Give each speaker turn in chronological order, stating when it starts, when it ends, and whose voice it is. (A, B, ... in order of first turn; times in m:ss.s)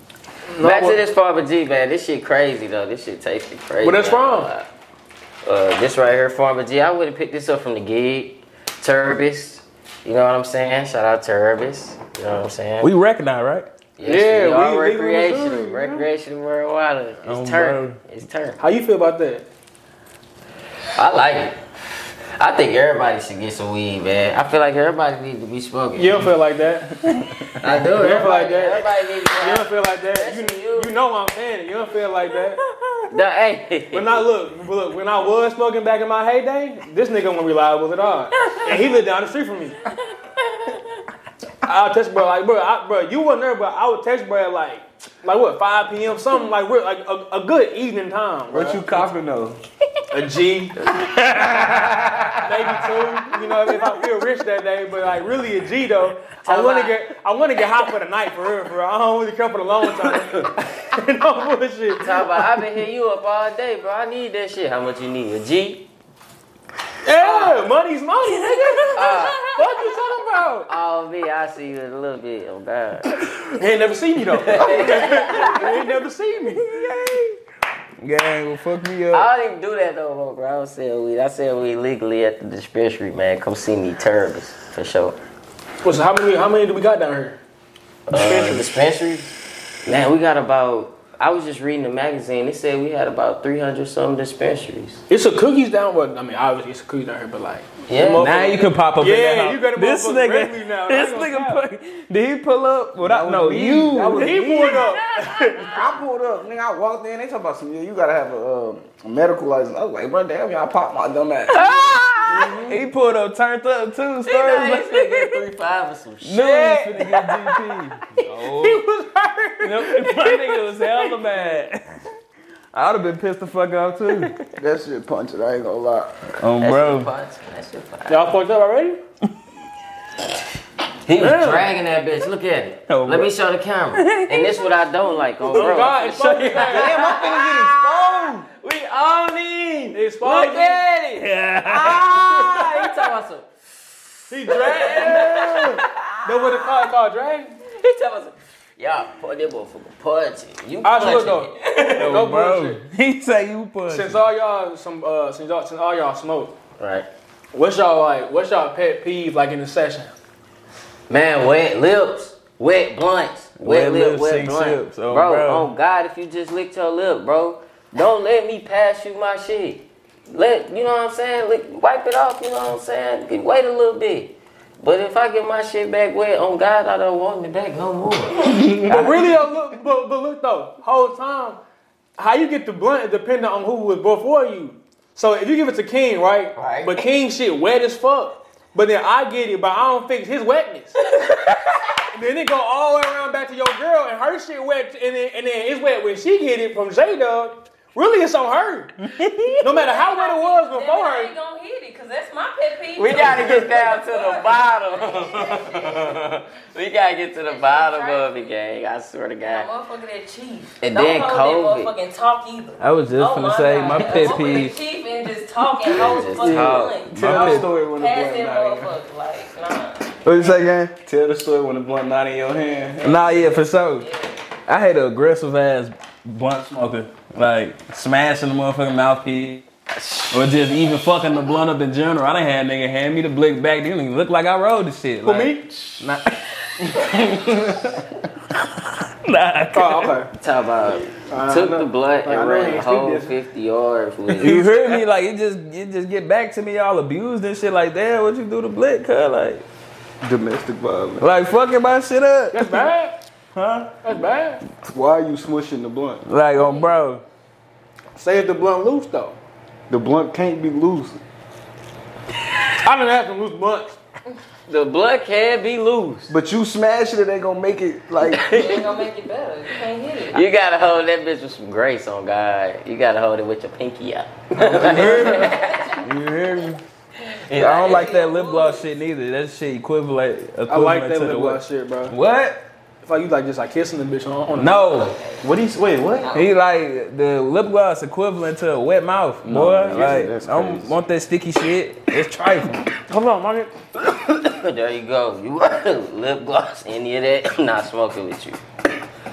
0:00.5-0:01.0 A
0:00.6-0:04.7 B
0:03.8-0:04.5 A
0:05.4-0:12.9 B
0:12.8-0:13.6 C
0:14.0-0:18.6 B
0:14.0-0:16.0 A
0:17.2-0:18.0 C
0:18.6-0:19.4 A
0:20.9-0:21.6 B
0:22.4-0:26.3 B
0:26.0-0:26.9 A
0:27.6-0:30.9 B
0:27.7-0:32.6 A
0:33.1-0:34.2 B
0:33.9-0:39.8 A
0:41.6-0:49.0 A
0:48.5-0:49.6 D
0:50.1-0:50.8 A
0:51.0-0:52.0 C
0:51.6-0:52.3 D
0:52.4-1:02.4 A
0:56.4-0:57.0 B
1:02.0-1:05.9 B
1:07.0-1:10.7 A
1:07.2-1:07.6 B
1:08.9-1:09.4 B
1:10.7-1:13.1 B
1:13.4-1:16.7 A
1:14.4-1:15.7 B
1:16.9-1:17.2 C
1:18.0-1:19.3 C
1:19.1-1:25.2 B
1:25.8-1:27.4 A
1:28.1-1:29.3 B
1:28.1-1:28.7 A
1:29.8-1:35.0 B
1:35.1-1:41.6 A
1:37.9-1:38.3 B
1:38.2-1:44.5 C
1:43.0-1:44.9 D
1:43.8-1:45.8 A
1:45.2-1:45.9 E
1:45.7-1:51.6 D
1:51.5-1:52.5 B
1:51.7-1:52.0 C
1:52.3-1:52.8 A
1:52.6-1:55.4 C
1:54.2-1:57.1 B
1:56.2-1:58.8 C
1:57.0-1:57.4 A
1:58.2-2:01.3 A
1:59.6-2:01.9 C
2:02.7-2:04.3 C
2:04.6-2:06.2 D
2:06.4-2:07.1 C
2:06.6-2:08.3 B
2:08.1-2:09.0 A
2:11.0-2:23.5 B
2:11.2-2:11.7 A
2:12.9-2:13.3 C
2:13.9-2:14.6 C
2:15.4-2:17.1 A
2:16.6-2:18.5 D
2:19.9-2:20.8 A
2:21.1-2:22.6 C
2:24.3-2:27.5 A
2:24.4-2:26.6 B
2:27.7-2:32.3 B
2:30.8-2:32.8 A
2:32.0-2:34.2 C
2:33.9-2:36.5 A
2:36.8-2:37.1 B
2:37.5-2:40.1 A
2:41.1-2:59.0 B
2:43.6-2:45.7 C
2:58.4-2:59.2 D
2:58.8-3:01.6 A
3:02.2-3:10.9 A
3:06.5-3:07.1 B
3:11.2-3:11.7 B
3:12.1-3:18.9 A
3:19.1-3:19.6 C
3:19.6-3:21.3 A
3:19.7-3:25.9 E
3:23.0-3:29.6 B
3:27.4-3:28.5 E
3:29.4-3:40.1 E
3:30.8-3:31.9 B
3:32.8-3:34.8 C
3:35.9-3:37.0 B
3:36.4-3:38.9 D
3:37.1-3:37.7 C
3:40.2-3:40.9 C
3:41.0-3:43.2 D
3:43.0-3:44.1 C
3:43.0-3:44.4 E
3:44.7-3:49.6 C
3:50.0-3:50.4 B
3:50.3-3:57.4 C
3:55.2-3:56.0 A
3:57.3-3:57.8 D
3:59.2-4:00.2 C
3:59.7-4:00.3 A
4:00.3-4:05.0 B
4:01.3-4:02.8 A
4:02.3-4:03.3 D
4:04.3-4:09.6 C
4:10.2-4:11.3 D
4:11.2-4:12.9 C
4:12.5-4:13.2 A
4:13.5-4:13.9 C
4:14.0-4:14.6 A
4:14.8-4:16.2 D
4:16.2-4:17.2 C
4:18.2-4:19.4 A
4:19.9-4:21.2 D
4:22.8-4:24.0 A
4:24.7-4:26.3 B
4:26.3-4:28.4 D
4:28.2-4:29.0 B
4:28.5-4:30.4 E
4:30.3-4:35.6 B
4:34.6-4:36.8 C
4:35.0-4:36.0 E
4:37.4-4:38.1 B
4:37.5-4:42.6 C
4:37.8-4:38.8 E
4:40.7-4:42.1 A
4:43.0-4:44.9 A
4:44.5-4:45.2 C
4:45.4-4:46.3 D
4:46.2-4:46.5 E
4:46.3-4:52.9 C
4:49.4-4:50.9 D
4:53.0-4:53.7 A
4:54.4-4:58.6 B